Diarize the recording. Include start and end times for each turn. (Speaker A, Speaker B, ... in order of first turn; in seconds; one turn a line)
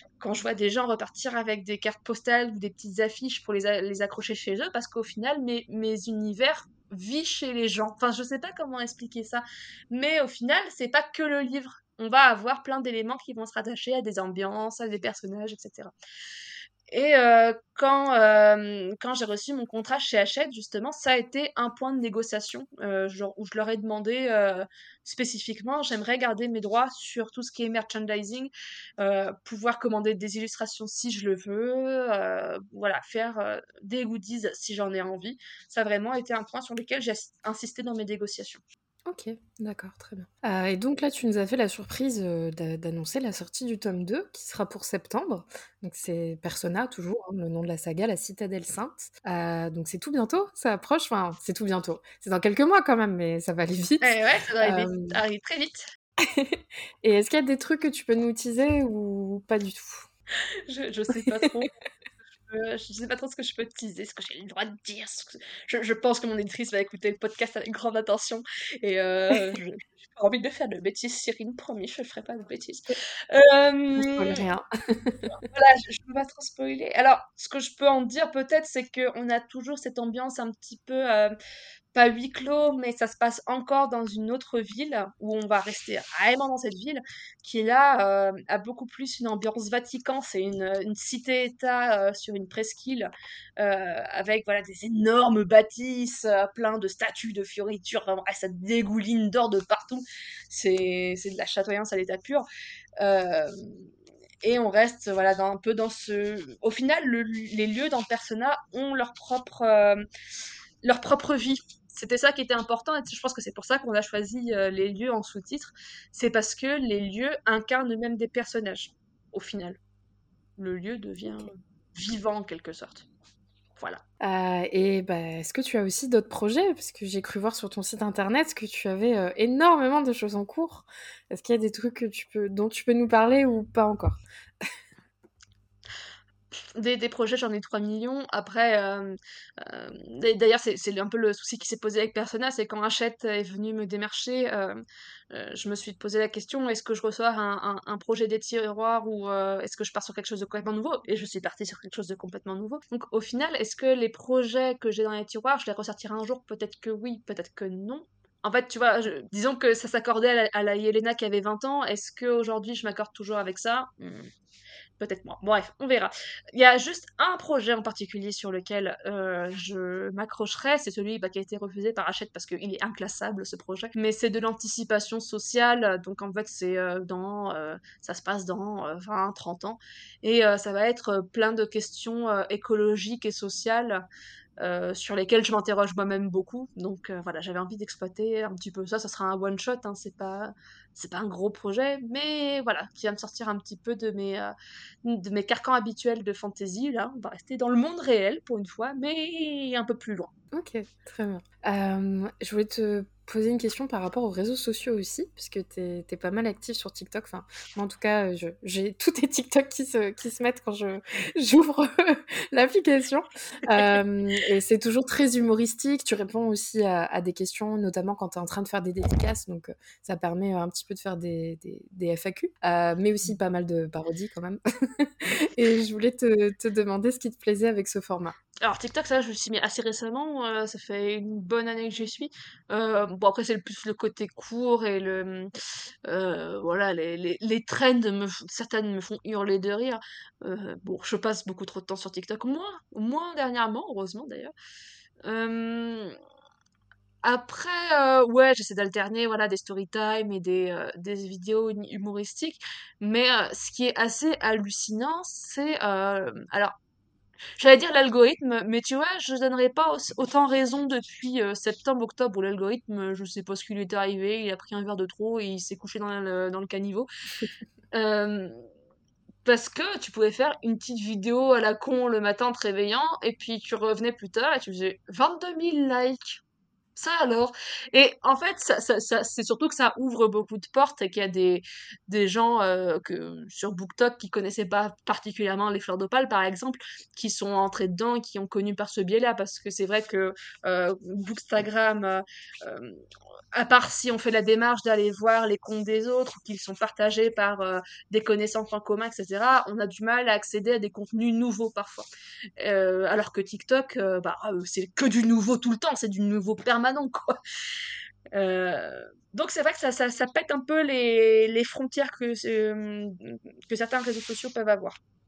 Speaker A: 0.2-15.9
Speaker A: 16.9-38.6
Speaker B: 39.0-55.2
Speaker A: 54.0-55.9
Speaker B: 56.2-60.1
Speaker A: 60.7-61.7
Speaker B: 61.2-61.7
Speaker A: 62.5-74.4
Speaker B: 74.0-75.3
Speaker A: 75.4-81.3
Speaker A: 81.9-102.5
Speaker A: 103.0-103.9
Speaker A: 104.4-110.0
Speaker A: 110.8-119.8
Speaker A: 120.6-123.1
Speaker B: 124.2-134.7
Speaker A: 136.8-164.3
Speaker A: 165.0-184.0
Speaker A: 184.6-194.5
Speaker A: 195.0-200.3
Speaker B: 200.5-228.3
Speaker A: 228.6-235.5
Speaker A: 236.1-244.5
Speaker A: 245.2-246.2
Speaker A: 247.2-256.7
Speaker A: 257.6-267.1
Speaker A: 267.9-268.6
Speaker A: 269.4-276.4
Speaker A: 276.9-302.1
Speaker A: 302.6-307.4
Speaker A: 308.3-315.0